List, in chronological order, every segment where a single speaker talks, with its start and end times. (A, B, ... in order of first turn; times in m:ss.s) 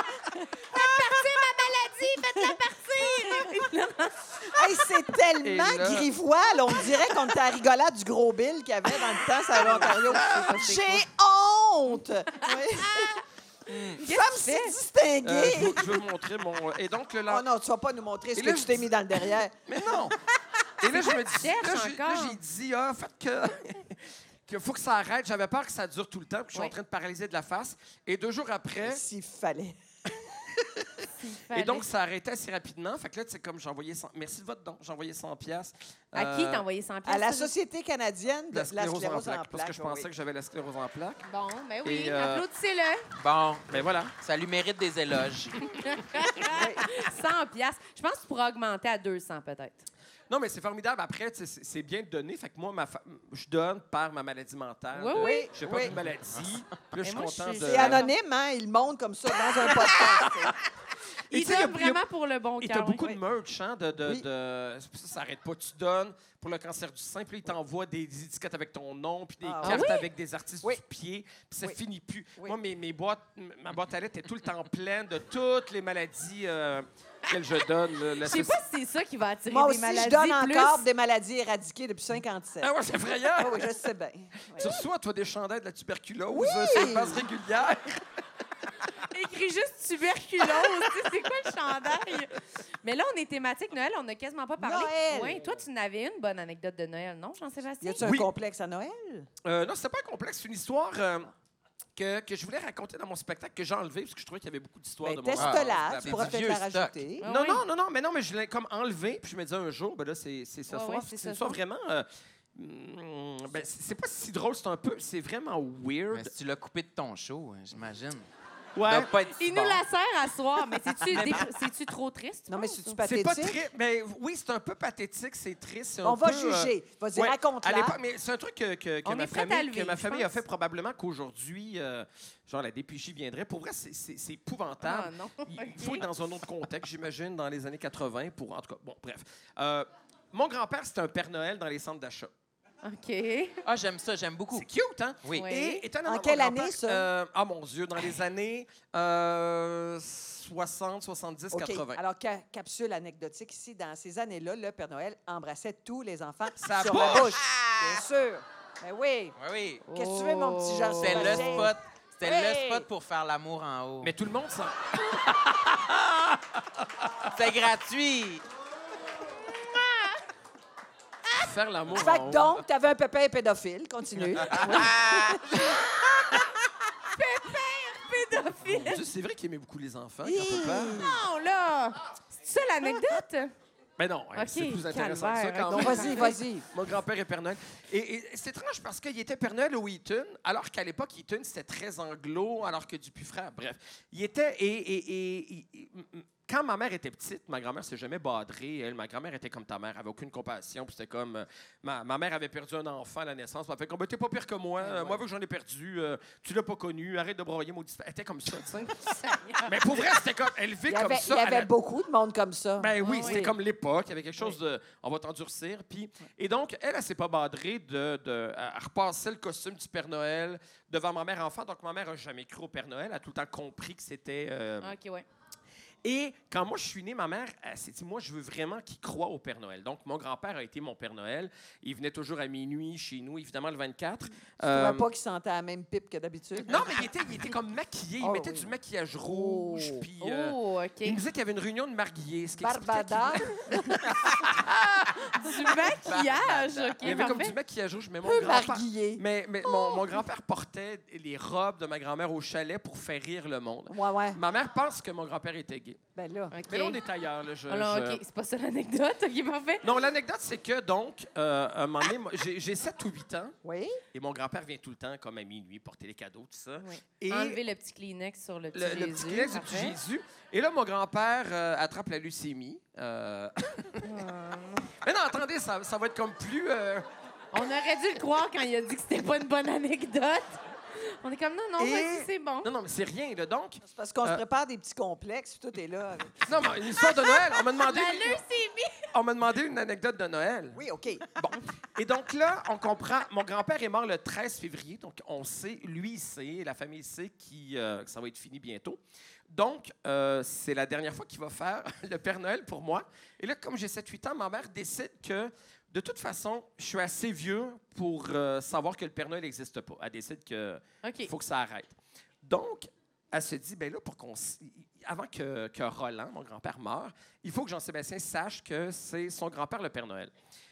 0:00.4-0:04.6 A
0:00.7-0:01.2 B
0:02.4-0:03.6 B
0:04.4-0:13.2 B
0:05.4-0:06.1 C
0:09.5-0:11.0 A
0:09.6-0:10.6 C
0:12.8-0:13.2 A
0:13.7-0:14.0 D
0:14.0-0:14.8 A
0:14.0-0:15.9 B
0:15.2-0:17.4 C
0:17.3-0:20.1 B
0:18.4-0:18.9 C
0:19.7-0:20.2 C
0:20.8-0:29.0 C
0:20.9-0:22.4 A
0:28.8-0:30.1 B
0:30.6-0:36.6 C
0:31.2-0:31.9 A
0:36.1-0:37.5 A
0:37.0-0:40.1 B
0:38.5-0:41.2 C
0:41.3-0:43.0 A
0:41.8-0:42.4 C
0:43.2-0:45.6 D
0:43.7-0:44.1 C
0:45.7-0:49.8 A
0:46.4-0:46.8 B
0:50.3-0:58.1 C
0:54.9-0:55.4 A
0:55.1-0:56.0 B
0:57.0-0:58.1 A
0:57.6-1:00.6 B
0:59.7-1:00.1 C
1:01.3-1:02.0 C
1:01.3-1:03.0 A
1:02.6-1:18.6 C
1:09.4-1:09.9 B
1:09.6-1:10.0 A
1:18.2-1:20.9 A
1:19.5-1:22.7 B
1:22.6-1:23.7 C
1:23.4-1:24.7 B
1:24.6-1:28.0 C
1:26.3-1:27.2 B
1:29.1-1:38.1 A
1:30.5-1:30.9 C
1:34.6-1:35.5 B
1:37.8-1:39.3 B
1:38.0-1:38.3 C
1:39.4-1:41.3 C
1:42.0-1:46.6 C
1:45.0-1:47.2 B
1:45.3-1:47.0 D
1:47.2-1:47.6 A
1:47.2-1:56.3 C
1:50.7-1:51.6 A
1:56.1-1:58.3 D
1:58.8-1:59.1 C
1:58.9-1:59.8 D
1:59.4-2:03.0 A
2:01.1-2:01.4 D
2:02.5-2:03.6 B
2:03.0-2:22.3 C
2:06.0-2:08.0 B
2:09.0-2:10.4 A
2:14.8-2:16.1 A
2:22.8-2:23.6 A
2:23.6-2:24.7 D
2:24.5-2:32.0 C
2:25.3-2:25.8 A
2:26.0-2:27.1 B
2:31.5-2:39.4 B
2:36.6-2:37.4 C
2:36.9-2:38.0 D
2:39.4-2:39.8 D
2:39.9-2:41.6 A
2:39.9-2:42.9 B
2:41.0-2:44.1 D
2:44.0-2:47.3 C
2:47.3-2:48.4 D
2:49.8-2:50.1 A
2:51.4-2:52.6 C
2:51.9-2:56.4 B
2:54.5-2:55.4 D
2:54.6-2:54.9 A
2:57.1-2:59.0 A
2:58.7-3:01.0 C
3:00.2-3:01.2 B
3:01.0-3:03.5 A
3:04.0-3:29.0 C
3:04.4-3:06.4 A
3:05.7-3:06.7 B
3:24.8-3:25.2 B
3:28.7-3:29.8 A
3:29.7-3:31.7 C
3:30.9-3:33.5 B
3:32.8-3:44.9 C
3:33.0-3:33.4 A
3:44.8-3:45.2 A
3:46.0-3:55.1 C
3:54.7-3:57.1 B
3:56.7-4:03.6 C
3:58.2-3:58.7 B
3:59.3-4:00.1 B
4:00.2-4:01.2 A
4:02.6-4:04.4 B
4:04.3-4:05.1 C
4:05.3-4:07.6 A
4:06.0-4:07.2 D
4:07.0-4:16.0 C
4:08.2-4:09.2 B
4:09.7-4:10.2 A
4:13.9-4:14.4 B
4:16.1-4:16.6 B
4:16.5-4:17.0 A
4:16.7-4:18.2 C
4:17.7-4:19.8 A
4:19.8-4:23.6 C
4:23.6-4:24.0 B
4:24.1-4:27.6 C
4:26.8-4:30.0 A
4:28.7-4:34.0 C
4:34.0-4:34.9 A
4:35.0-4:37.1 C
4:37.5-4:42.7 A
4:41.8-4:44.4 C
4:43.8-4:46.5 B
4:46.4-4:48.4 C
4:47.0-4:49.1 A
4:49.1-4:50.8 C
4:50.8-4:51.4 B
4:51.4-4:59.0 C
4:59.5-5:20.3 C
5:11.0-5:11.3 A